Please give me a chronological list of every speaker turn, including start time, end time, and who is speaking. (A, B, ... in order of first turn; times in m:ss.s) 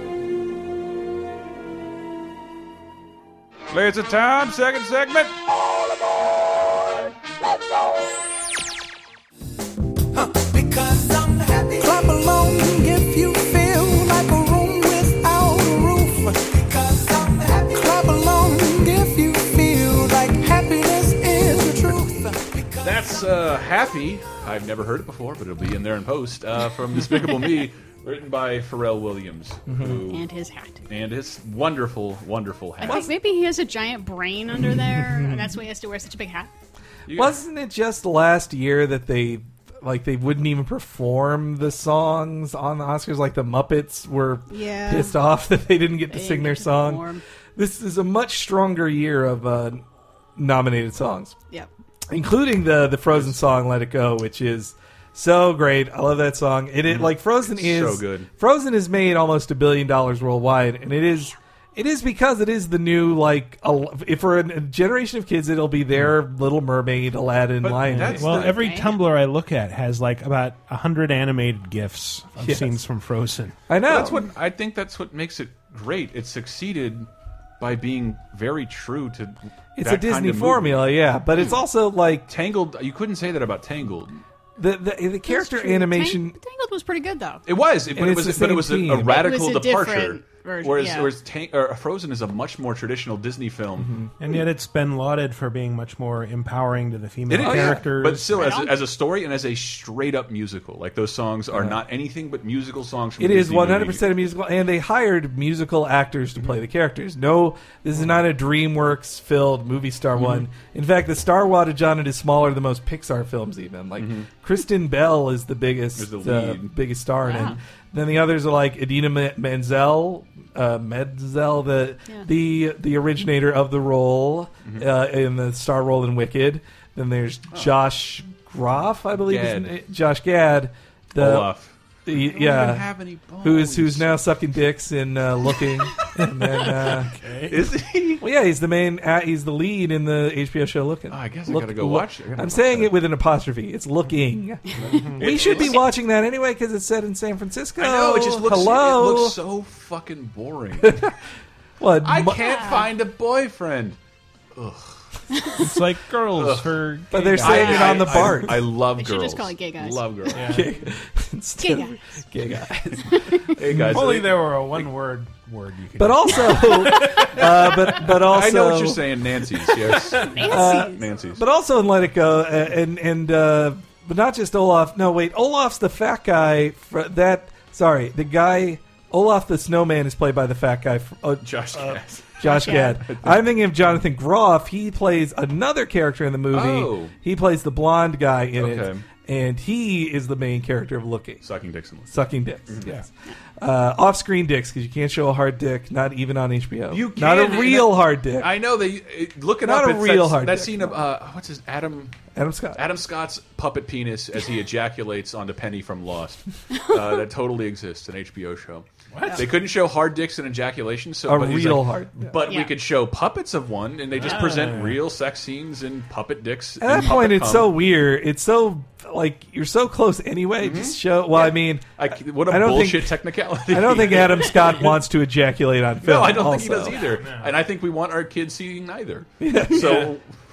0:03.7-0:05.3 A
0:10.1-0:23.1 B
0:22.8-0:30.3 A
0:29.7-0:30.0 C
0:30.1-0:30.8 D
0:30.9-0:33.1 A
0:32.8-0:36.5 D
0:34.6-0:35.5 C
0:37.1-0:37.3 A
0:37.1-0:47.0 C
0:44.5-0:45.1 D
0:46.1-0:47.2 D
0:47.6-0:51.4 C
0:52.1-1:08.5 C
0:53.1-0:53.4 A
0:56.9-0:58.3 A
1:07.6-1:08.6 A
1:07.9-1:13.6 E
1:08.5-1:08.9 D
1:12.4-1:12.8 C
1:13.7-1:14.2 C
1:13.9-1:17.1 A
1:17.6-1:20.8 A
1:19.8-1:22.3 C
1:22.3-1:24.2 A
1:24.6-1:26.4 C
1:25.3-1:27.4 D
1:27.4-1:33.9 A
1:27.9-1:29.2 C
1:29.0-1:31.1 D
1:33.8-1:34.1 C
1:34.2-1:38.5 E
1:37.3-1:44.0 A
1:37.4-1:37.8 C
1:38.3-1:38.7 D
1:41.5-1:41.8 C
1:43.2-2:11.5 C
1:50.2-1:50.4 A
1:54.0-1:54.3 A
1:56.0-1:56.7 A
1:57.2-1:57.6 D
1:57.3-1:57.6 A
2:09.3-2:09.7 A
2:11.2-2:14.1 A
2:12.0-2:12.9 C
2:13.4-2:17.1 C
2:16.7-2:17.7 E
2:17.2-2:18.2 A
2:18.2-2:29.4 C
2:21.1-2:22.9 A
2:24.8-2:25.0 D
2:24.8-2:25.8 A
2:24.9-2:25.4 E
2:27.8-2:31.1 A
2:30.8-2:31.1 C
2:31.8-2:32.7 C
2:32.0-2:34.0 A
2:32.5-2:32.9 D
2:34.6-2:35.0 A
2:35.3-2:35.7 D
2:35.6-2:37.7 E
2:36.3-2:36.8 A
2:37.1-2:38.6 C
2:37.4-2:40.6 A
2:37.4-2:38.3 D
2:38.9-2:40.4 D
2:40.3-2:40.7 E
2:40.4-2:44.0 C
2:41.6-2:42.0 D
2:43.0-2:43.5 D
2:43.4-2:44.5 A
2:43.7-2:47.7 E
2:46.0-3:11.4 C
2:47.4-2:51.4 A
2:50.1-2:51.1 D
3:01.4-3:03.4 A
3:02.4-3:03.0 D
3:06.5-3:07.1 A
3:08.6-3:09.0 A
3:11.4-3:12.1 A
3:12.1-3:13.0 C
3:12.7-3:12.9 A
3:13.6-3:18.5 C
3:16.9-3:22.2 A
3:19.6-3:21.0 C
3:22.3-3:22.8 C
3:22.8-3:37.7 A
3:26.7-3:27.0 D
3:29.1-3:29.5 E
3:31.3-3:32.4 C
3:32.4-3:32.7 D
3:34.1-3:35.0 E
3:36.8-3:41.9 C
3:40.6-3:44.9 A
3:42.4-3:47.0 C
3:46.0-3:50.2 A
3:47.2-3:47.6 E
3:49.4-3:50.1 C